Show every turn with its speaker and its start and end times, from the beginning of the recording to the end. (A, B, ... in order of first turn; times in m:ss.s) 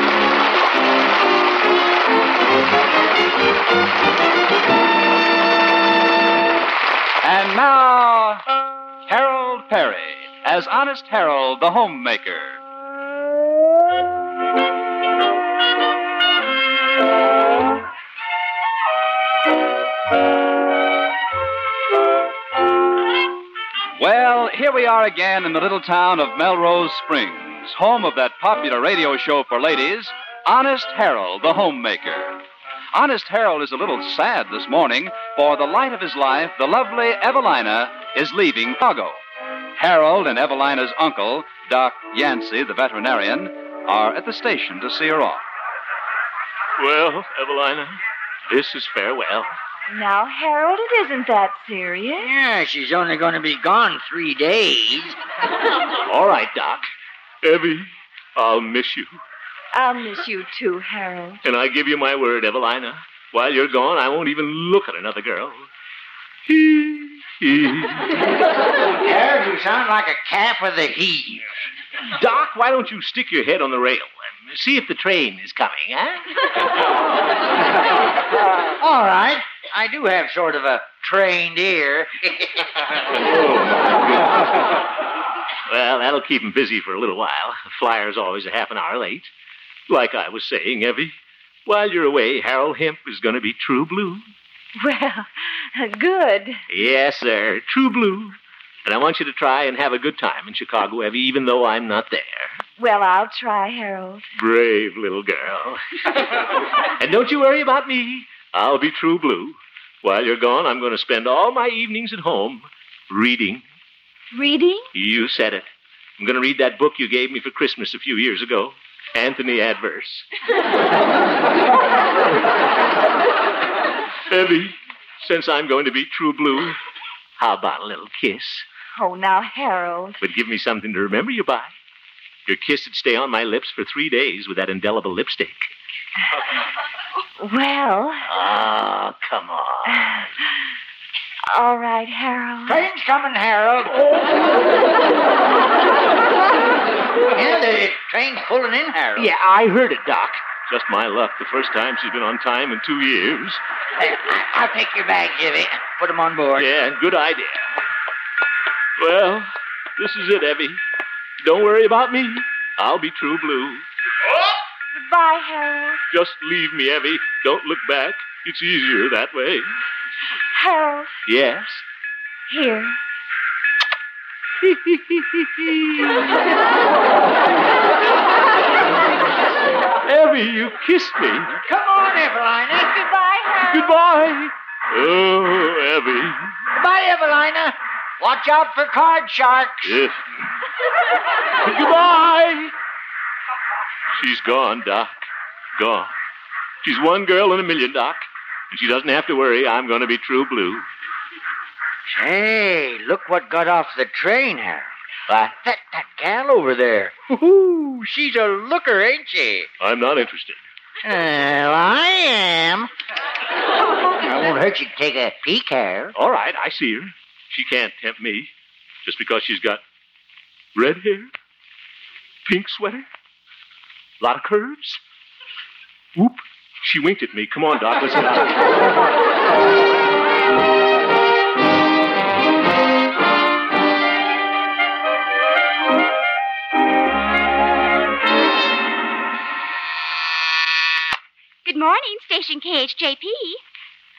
0:07.2-0:08.4 A
0:09.1-0:12.6 A
0:24.0-0:32.4 A
0:32.9-0:39.2 A
0:39.8-0:45.4 A
0:46.8-0:49.5 B
0:49.9-0:52.2 C
0:52.2-0:55.2 D
0:56.0-0:56.8 B
0:57.4-0:59.1 B
0:59.8-1:01.4 C
1:01.4-1:05.7 B
1:06.4-1:08.2 B
1:08.9-1:11.4 D
1:12.1-1:16.3 B
1:18.8-1:22.6 D
1:23.1-1:24.4 B
1:25.7-1:29.3 B
1:29.9-1:34.2 B
1:34.8-1:36.6 C
1:36.7-1:42.6 B
1:42.8-1:44.2 C
1:44.4-1:45.8 B
1:47.0-1:53.6 B
1:54.3-1:54.9 C
1:54.9-2:00.2 B
2:04.3-2:06.8 B
2:07.4-2:08.6 B
2:09.0-2:10.1 C
2:10.2-2:11.7 B
2:12.4-2:15.7 B
2:17.4-2:18.2 C
2:18.2-2:20.2 B
2:21.5-2:22.8 C
2:22.6-2:24.2 D
2:27.3-2:29.3 D
2:29.2-2:33.6 B
2:34.0-2:36.7 D
2:36.6-2:37.8 B
2:39.0-2:40.8 B
2:41.4-2:43.8 B
2:44.9-2:46.0 C
2:46.1-2:49.7 B
2:50.5-2:51.1 C
2:51.2-2:51.8 B
2:52.5-2:53.0 C
2:54.6-2:56.2 B
3:00.0-3:01.6 B
3:01.6-3:03.5 D
3:03.7-3:06.6 B
3:06.7-3:09.9 D
3:09.8-3:10.2 B
3:11.6-3:12.7 B
3:14.1-3:15.2 B
3:15.8-3:16.1 B
3:16.8-3:20.9 B
3:22.1-3:29.7 D
3:29.8-3:30.6 B
3:31.0-3:32.9 D
3:34.2-3:36.1 D
3:36.1-3:38.5 B
3:39.0-3:39.8 B
3:40.7-3:41.3 B
3:42.4-3:43.0 B
3:44.2-3:45.0 B
3:46.1-3:48.9 B
4:01.6-4:03.6 E